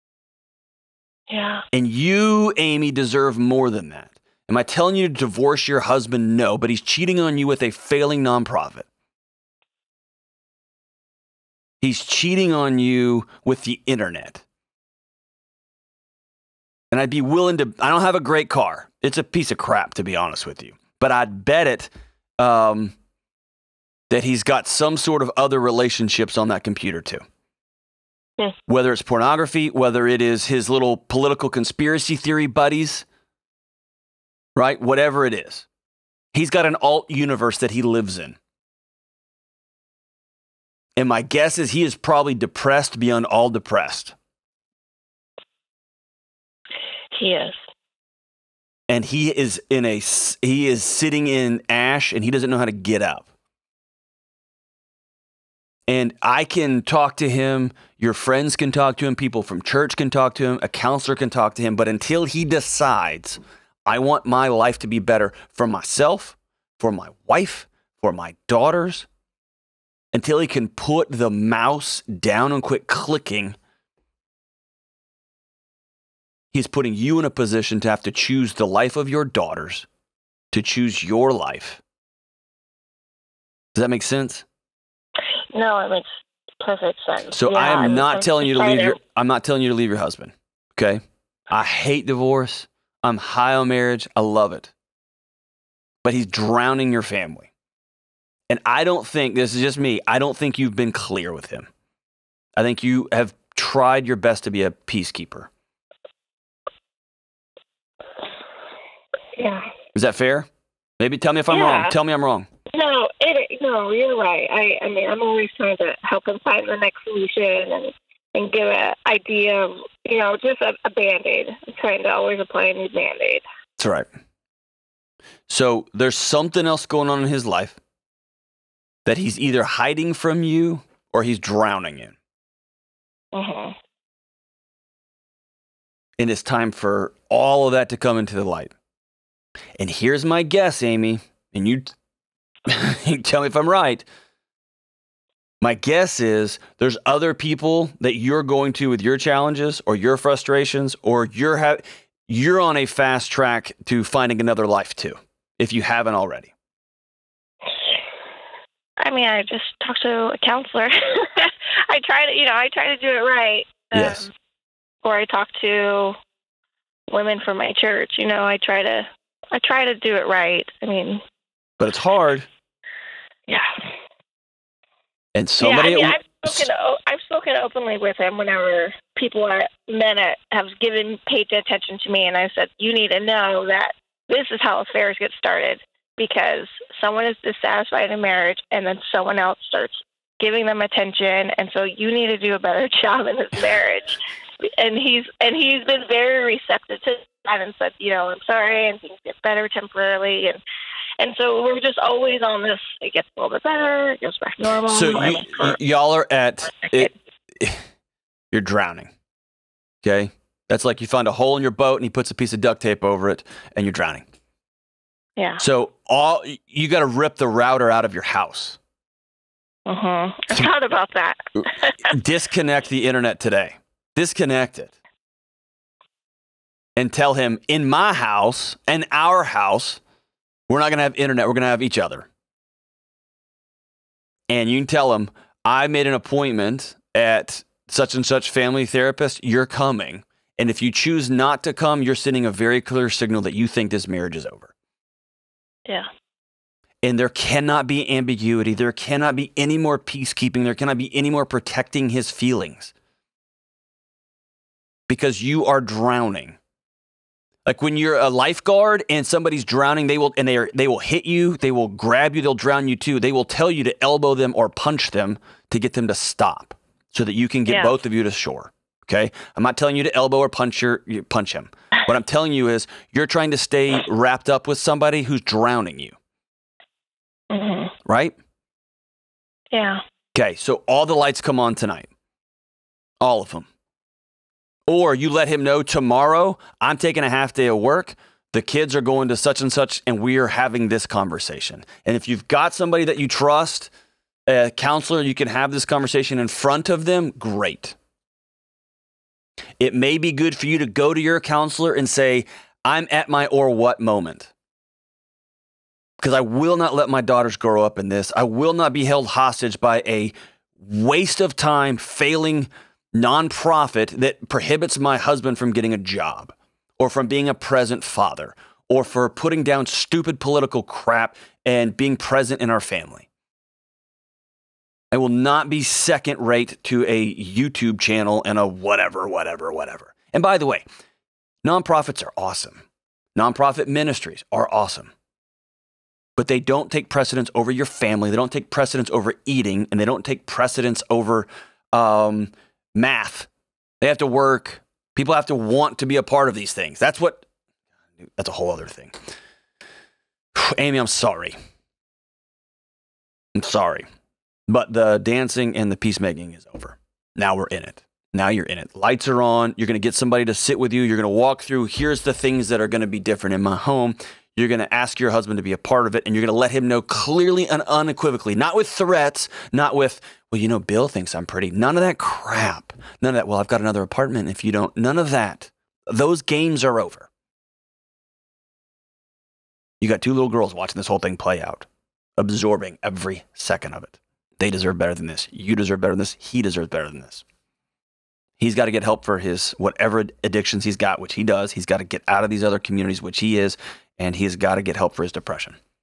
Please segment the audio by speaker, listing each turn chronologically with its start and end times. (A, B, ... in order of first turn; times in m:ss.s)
0:01.3-0:01.6 A
0:01.7-0:08.9 B
0:11.8-0:14.4 B
0:16.9-0:22.9 B
0:24.1-0:27.2 B
0:28.7-0:33.1 B
0:34.6-0:35.7 B
0:36.3-0:38.4 B
0:41.0-0:44.2 B
0:47.1-0:47.6 A
0:48.9-0:53.3 B
0:55.9-1:09.1 B
1:10.1-1:13.6 B
1:16.5-1:19.9 B
1:20.5-1:21.8 B
1:23.8-1:24.4 B
1:25.5-1:26.1 A
1:26.6-1:29.0 A
1:27.3-1:34.7 B
1:36.0-1:37.5 B
1:38.5-1:41.7 B
1:42.6-1:45.5 B
1:49.4-1:49.6 A
1:50.0-1:50.5 B
1:51.0-1:52.5 B
1:51.5-1:52.0 A
1:52.7-2:03.4 A
2:03.8-2:04.1 B
2:05.5-2:07.8 B
2:09.1-2:12.2 B
2:13.3-2:13.7 A
2:16.2-2:18.7 B
2:19.8-2:21.9 B
2:22.7-2:24.0 B
2:25.6-2:36.5 B
2:39.0-2:44.3 A
2:43.9-2:44.3 B
2:45.0-2:46.2 A
2:47.1-2:51.2 A
2:51.8-2:52.5 B
2:55.4-2:56.7 B
2:55.6-3:20.6 A
3:21.2-3:25.8 A
3:24.9-3:27.8 B
3:26.8-3:27.1 A
3:28.5-3:29.1 B
3:30.0-3:34.2 B
3:35.6-3:38.8 B
3:39.9-3:42.1 A
3:42.1-3:44.9 B
3:47.0-3:50.0 B
3:50.7-3:52.3 B
3:54.5-4:04.7 B
4:07.0-4:12.9 B
4:15.1-4:16.6 B
4:17.7-4:36.2 B
4:27.7-4:27.9 A
4:37.5-4:37.9 A
4:38.1-4:38.4 B
4:39.7-4:40.0 A
4:40.4-4:42.1 B
4:43.2-4:43.7 B
4:44.9-4:53.9 B
4:54.5-4:58.0 B
4:59.8-5:04.5 B
5:06.2-5:23.3 B
5:25.1-5:30.8 B
5:31.6-5:32.8 B
5:33.4-5:35.1 B
5:36.4-5:43.5 B
5:44.0-5:47.5 B
5:48.2-5:49.1 B
5:50.6-5:51.6 B
5:53.6-5:54.1 B
5:54.7-6:17.3 B
6:20.0-6:21.9 B
6:22.4-6:27.4 B
6:28.6-6:35.8 B